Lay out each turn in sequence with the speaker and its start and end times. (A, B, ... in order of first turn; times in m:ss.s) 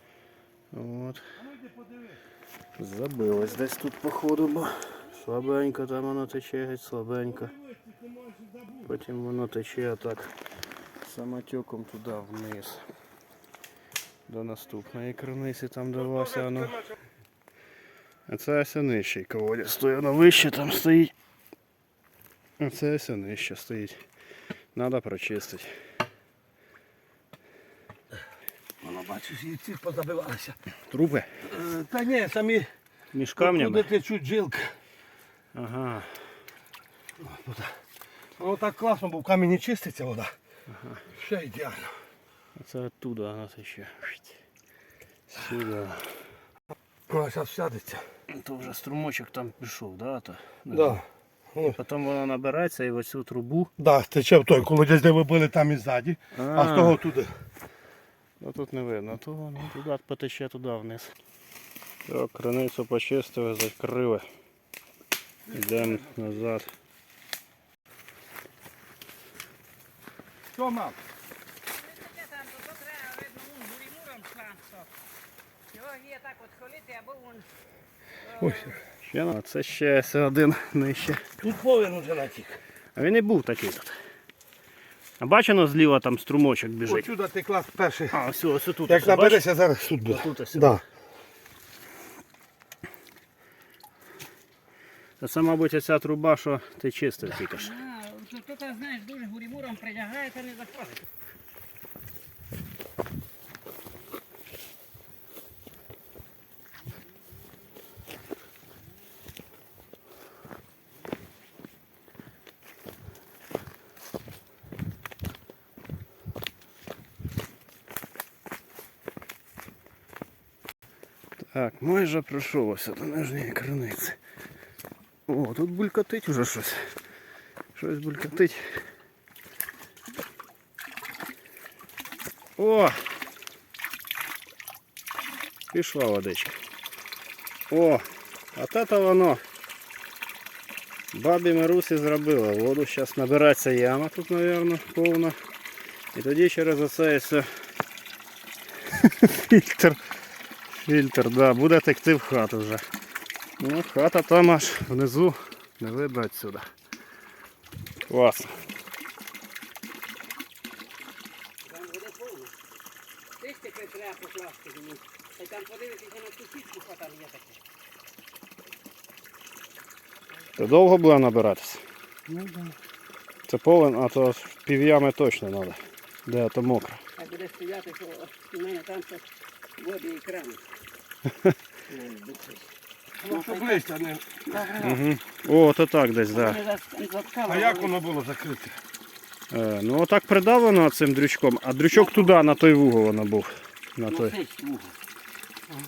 0:00.7-0:01.3 A
0:01.4-0:02.2 B
0:02.8-0:07.5 A
0:07.7-0:08.8 B
0:08.8-0:10.3 A
0:11.0-0:12.8 A
0:14.3-0:16.9 A
0:18.3-0:21.1 A
0:22.6-0:24.0 A
0:24.7-0:25.7 A
0:28.8-0:30.6 B
0:30.9-0:31.3 A
0:31.4-0:32.7 B
0:33.1-0:33.9 A
0:33.4-0:34.7 B
0:35.5-0:36.4 A
0:37.2-0:37.8 B
0:38.4-0:40.3 B
0:40.7-0:41.0 A
0:41.1-0:42.0 B
0:42.6-0:44.4 A
0:45.3-0:46.3 A
0:47.1-0:48.1 B
0:48.3-0:51.0 A
0:50.7-0:51.8 B
0:51.6-0:53.7 A
0:53.8-0:57.3 B
0:56.3-0:57.0 A
0:58.4-1:01.1 A
1:02.0-1:04.3 A
1:05.5-1:06.7 A
1:05.5-1:06.0 B
1:10.5-1:11.0 B
1:11.8-1:14.9 C
1:15.7-1:17.5 C
1:18.2-1:18.8 C
1:18.3-1:18.8 B
1:19.0-1:21.3 A
1:21.4-1:22.6 B
1:22.9-1:23.9 A
1:25.2-1:27.1 A
1:26.8-1:28.2 B
1:28.1-1:29.4 A
1:28.9-1:30.8 B
1:30.1-1:30.8 A
1:35.2-1:37.8 A
1:37.5-1:41.0 C
2:01.4-2:04.2 A
2:05.3-2:07.0 A
2:07.7-2:08.8 A
2:12.6-2:13.0 A
2:15.7-2:16.6 A
2:17.7-2:18.0 A
2:18.5-2:19.4 A
2:21.1-2:25.4 A
2:26.1-2:27.5 A
2:28.9-2:30.0 A
2:30.7-2:32.8 A
2:33.6-2:36.7 A
2:38.0-2:38.6 A
2:41.6-2:42.5 C
2:43.4-2:47.6 C
2:50.6-2:51.8 A
2:52.3-2:52.7 B
2:53.5-2:57.0 A
2:57.2-2:59.2 C
2:59.8-3:00.6 C
3:01.9-3:02.7 C
3:03.2-3:04.5 B
3:03.2-3:03.9 C
3:04.4-3:05.0 C
3:04.8-3:06.6 A
3:06.3-3:08.0 C
3:07.5-3:08.8 B
3:09.5-3:14.4 A
3:11.9-3:12.4 C
3:14.1-3:14.9 C